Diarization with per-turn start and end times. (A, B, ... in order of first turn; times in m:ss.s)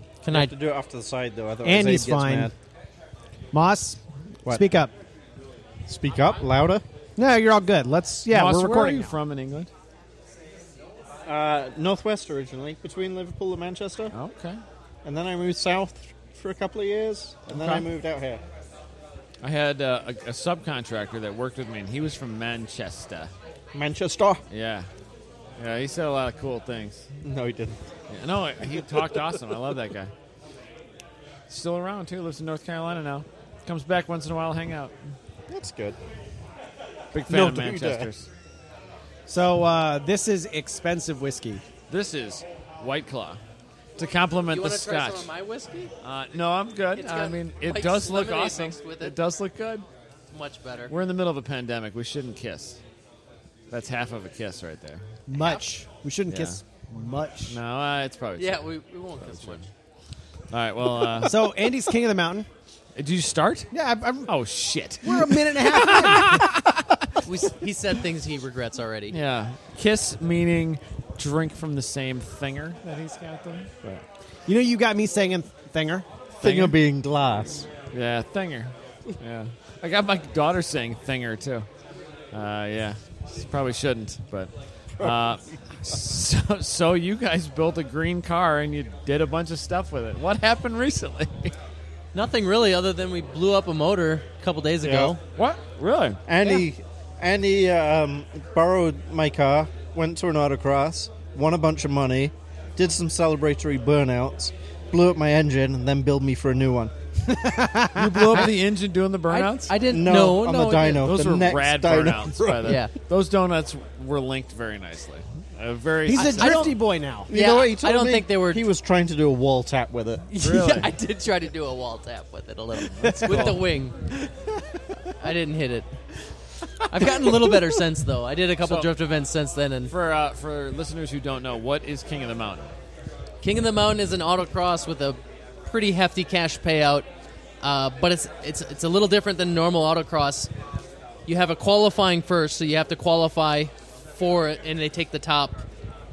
0:00.2-0:00.5 A
0:00.3-0:02.5 B
0:01.6-0:02.5 C
0:03.5-0:04.9 C
0:05.8-0:06.8 B
0:07.2-0:09.1 C
0:08.3-0:09.7 D
0:11.2-0:14.1 B
0:14.1-0:14.6 D
0:15.0-0:18.4 B
0:17.5-0:17.8 D
0:19.4-0:23.3 D
0:23.7-0:24.4 B
0:24.5-0:24.9 D
0:25.6-0:27.0 D
0:27.2-0:27.8 B
0:28.1-0:30.1 D
0:31.5-0:35.1 D
0:35.5-0:36.0 B
0:37.1-0:38.3 D
0:37.3-0:38.1 B
0:39.3-0:41.6 C
0:41.9-0:43.4 D
0:44.0-0:45.3 D
0:44.5-0:45.9 A
0:46.0-0:49.8 D
0:46.9-0:49.1 A
0:50.3-0:50.9 A
0:50.9-0:52.8 D
0:53.7-0:55.0 D
0:55.3-0:57.6 C
0:56.3-0:56.6 D
0:57.5-0:58.6 D
0:58.4-0:59.6 A
0:59.2-0:59.6 D
1:00.5-1:01.4 D
1:01.2-1:02.5 C
1:03.0-1:03.7 D
1:03.7-1:04.3 C
1:04.2-1:07.2 D
1:05.0-1:06.5 C
1:07.2-1:09.2 A
1:09.1-1:14.0 D
1:14.4-1:16.1 C
1:16.4-1:17.6 B
1:16.4-1:16.8 D
1:17.7-1:21.7 D
1:22.3-1:31.5 D
1:25.0-1:26.0 B
1:32.1-1:35.2 A
1:34.8-1:35.1 B
1:35.4-1:36.2 D
1:36.2-1:46.9 B
1:47.3-1:48.4 C
1:47.9-1:56.7 D
1:49.3-1:50.7 A
1:49.9-1:52.7 B
1:52.6-1:52.9 A
1:56.0-1:57.3 C
1:56.2-1:56.8 A
1:57.3-2:00.3 B
1:57.3-1:58.6 A
2:00.3-2:04.1 A
2:00.4-2:00.9 D
2:02.9-2:03.7 D
2:03.0-2:03.4 C
2:05.1-2:05.9 A
2:06.9-2:09.9 A
2:08.6-2:08.9 D
2:09.9-2:12.7 D
2:13.4-2:17.1 A
2:17.6-2:20.5 A
2:21.3-2:25.6 A